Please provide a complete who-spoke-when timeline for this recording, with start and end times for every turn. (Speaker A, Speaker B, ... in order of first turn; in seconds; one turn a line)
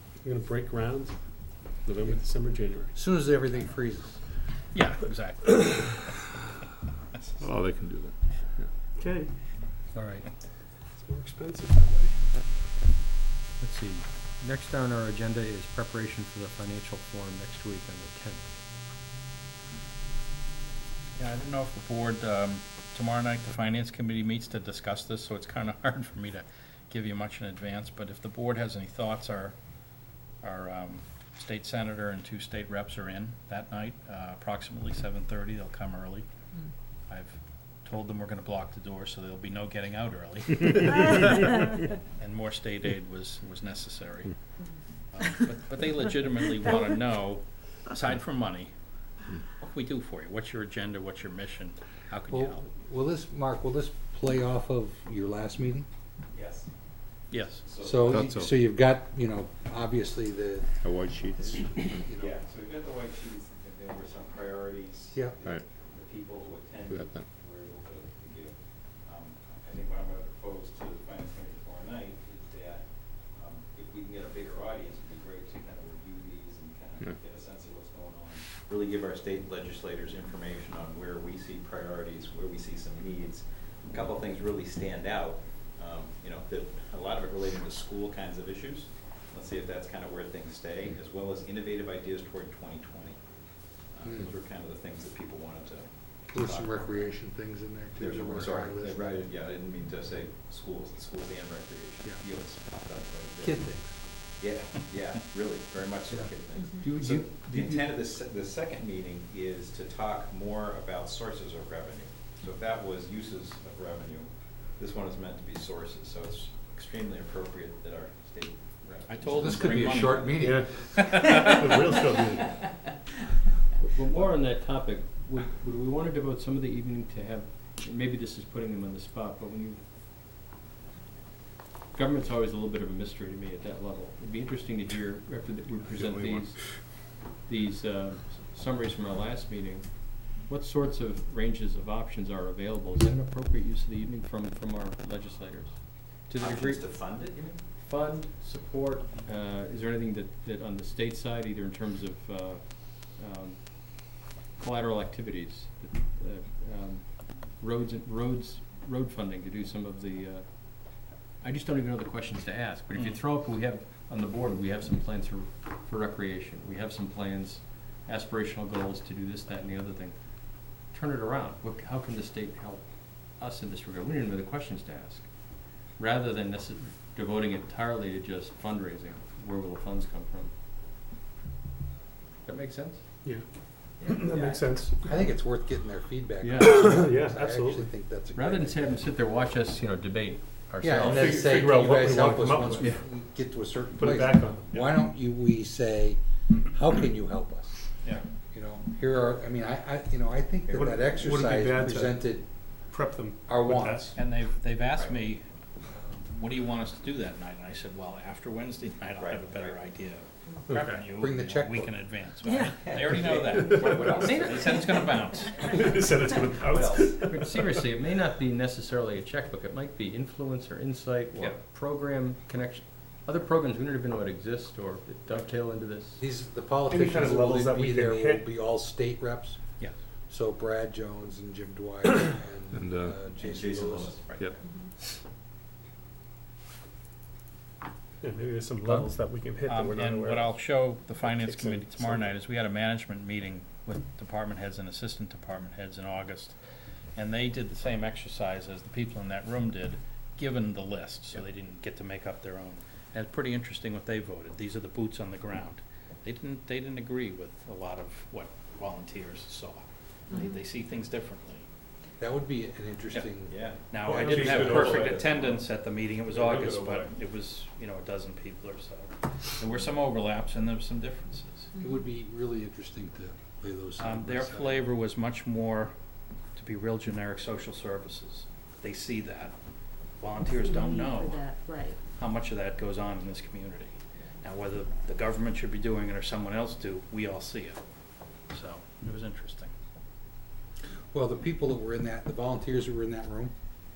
Speaker A: 0.2-2.9
Speaker B: 2.9-4.2
Speaker C: 4.7-6.2
Speaker D: 7.4-8.2
Speaker A: 9.0-9.3
Speaker E: 9.9-10.2
Speaker A: 10.9-12.3
Speaker E: 13.6-18.6
Speaker C: 21.2-29.5
Speaker C: 30.4-36.2
Speaker C: 37.1-41.5
Speaker C: 42.2-44.3
Speaker C: 45.1-48.7
Speaker C: 49.5-52.6
Speaker B: 52.3-55.9
Speaker F: 56.3-56.7
Speaker C: 57.3-57.6
Speaker F: 57.6-58.3
Speaker B: 57.8-60.8
Speaker D: 58.1-58.5
Speaker D: 60.8-62.1
Speaker B: 61.5-62.3
Speaker F: 62.1-93.2
Speaker D: 66.9-67.2
Speaker F: 93.9-97.1
Speaker B: 94.0-94.3
Speaker B: 96.3-99.2
Speaker F: 98.0-103.6
Speaker B: 103.4-104.0
Speaker F: 104.4-120.2
Speaker E: 106.1-108.0
Speaker G: 106.5-106.9
Speaker C: 119.1-121.4
Speaker B: 119.4-120.7
Speaker A: 120.4-120.7
Speaker A: 121.3-122.5
Speaker F: 121.4-122.0
Speaker E: 123.8-129.8
Speaker E: 131.9-175.3
Speaker D: 135.9-136.5
Speaker F: 146.4-147.6
Speaker E: 175.9-180.5
Speaker E: 182.4-183.0
Speaker A: 183.2-185.1
Speaker E: 184.0-184.6
Speaker F: 184.3-184.6
Speaker B: 185.0-188.9
Speaker E: 186.4-187.0
Speaker A: 186.6-187.9
Speaker E: 188.3-191.4
Speaker B: 190.8-197.8
Speaker A: 191.1-192.9
Speaker A: 193.9-194.8
Speaker B: 198.5-202.4
Speaker A: 200.7-202.2
Speaker A: 202.9-204.2
Speaker B: 203.5-204.1
Speaker C: 204.2-205.4
Speaker F: 204.9-205.2
Speaker C: 206.2-213.8
Speaker F: 209.2-209.9
Speaker A: 210.7-210.9
Speaker B: 211.2-211.9
Speaker G: 212.4-212.8
Speaker F: 212.6-215.1
Speaker A: 213.7-214.3
Speaker C: 214.3-215.7
Speaker A: 215.7-217.5
Speaker F: 216.6-217.2
Speaker E: 217.2-226.2
Speaker B: 226.2-229.6
Speaker A: 226.9-228.4
Speaker B: 230.3-234.2
Speaker D: 232.7-233.2
Speaker F: 233.3-234.6
Speaker A: 238.2-240.6
Speaker C: 238.9-239.1
Speaker C: 239.7-246.6
Speaker A: 241.2-242.2
Speaker C: 247.1-261.6
Speaker G: 260.3-260.6
Speaker B: 262.2-263.6
Speaker F: 263.5-265.6
Speaker C: 263.9-271.7
Speaker A: 264.0-265.2
Speaker A: 266.3-267.1
Speaker G: 271.7-272.1
Speaker B: 271.8-274.9
Speaker C: 274.0-275.9
Speaker C: 276.6-279.5
Speaker C: 280.2-281.5
Speaker G: 280.5-282.0
Speaker C: 282.1-287.8
Speaker C: 288.5-289.7
Speaker B: 291.1-293.5